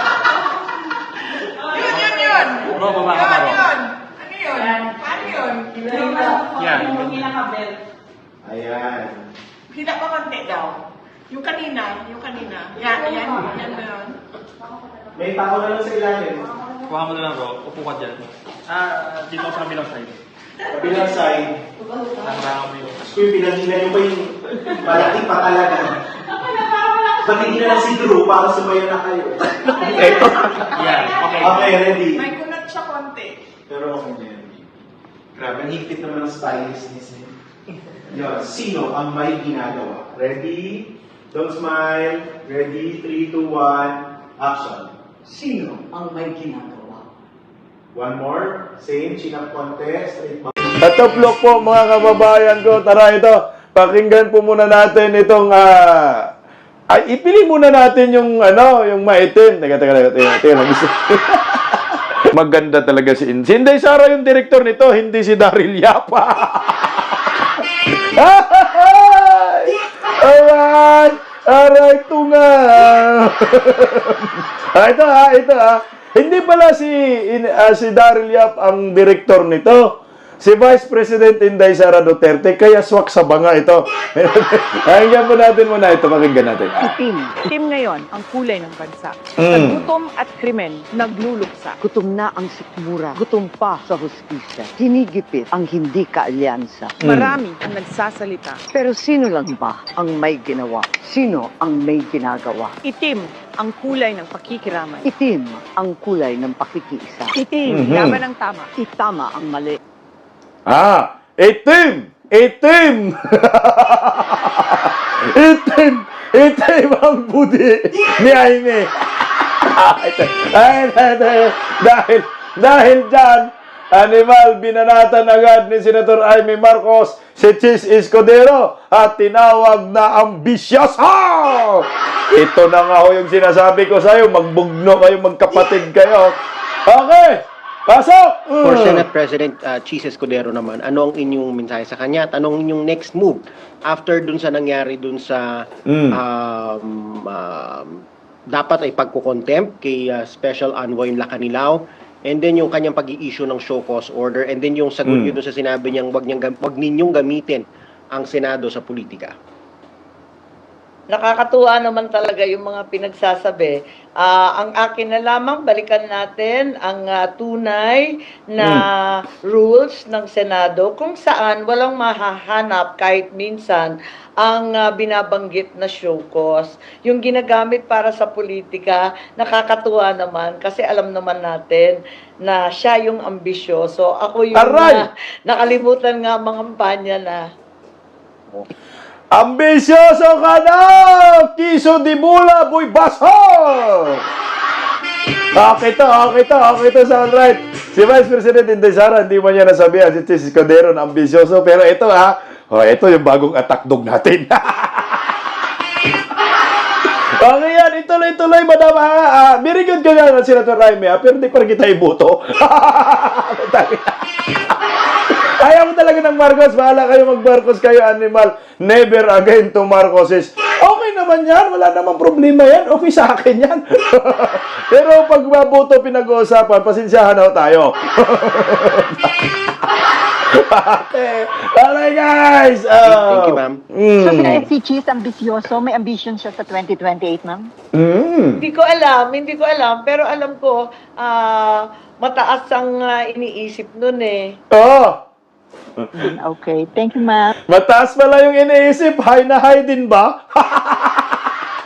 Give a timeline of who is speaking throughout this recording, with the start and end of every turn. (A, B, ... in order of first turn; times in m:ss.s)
0:01.7-0:06.4 A
0:01.8-0:03.7 B
0:06.6-0:07.4 B
0:08.4-0:09.3 C
0:09.7-0:14.2 A
0:15.2-0:16.5 C
0:16.9-0:20.2 B
0:20.7-0:21.6 C
0:22.2-0:23.1 B
0:23.0-0:26.0 C
0:24.9-0:25.3 B
0:27.2-0:30.6 C
0:30.8-0:31.8 B
0:31.3-0:32.2 C
0:32.2-0:33.4 A
0:33.7-0:34.6 C
0:35.4-0:37.3 C
0:38.1-0:44.9 C
0:45.2-0:47.0 D
0:48.0-0:50.5 C
0:50.8-0:56.2 E
0:56.9-1:01.8 E
1:02.3-1:26.9 E
1:26.8-1:27.4 D
1:27.5-1:31.8 F
1:29.4-1:29.9 E
1:31.8-1:37.0 D
1:37.0-1:37.4 E
1:37.0-1:38.6 F
1:38.7-1:42.8 D
1:42.8-1:45.1 F
1:45.0-1:47.3 D
1:47.4-1:48.7 F
1:47.7-1:48.2 E
1:48.8-1:49.8 D
1:50.7-2:16.4 E
2:16.9-2:19.0 E
2:18.6-2:25.4 G
2:25.9-2:26.2 E
2:26.2-2:28.0 G
2:28.6-2:31.8 G
2:32.3-2:37.6 G
2:35.0-2:35.4 E
2:38.2-2:39.3 G
2:41.1-3:07.4 H
2:48.6-2:48.9 E
3:04.6-3:05.0 E
3:09.3-3:14.2 E
3:15.6-3:25.2 E
3:27.4-3:34.6 E
3:35.6-3:49.6 E
3:50.5-3:54.7 E
3:53.1-3:53.8 G
3:54.2-3:57.7 I
3:57.9-3:58.6 E
3:58.6-4:04.4 H
4:04.7-4:05.2 E
4:06.2-4:07.5 I
4:07.7-4:11.4 E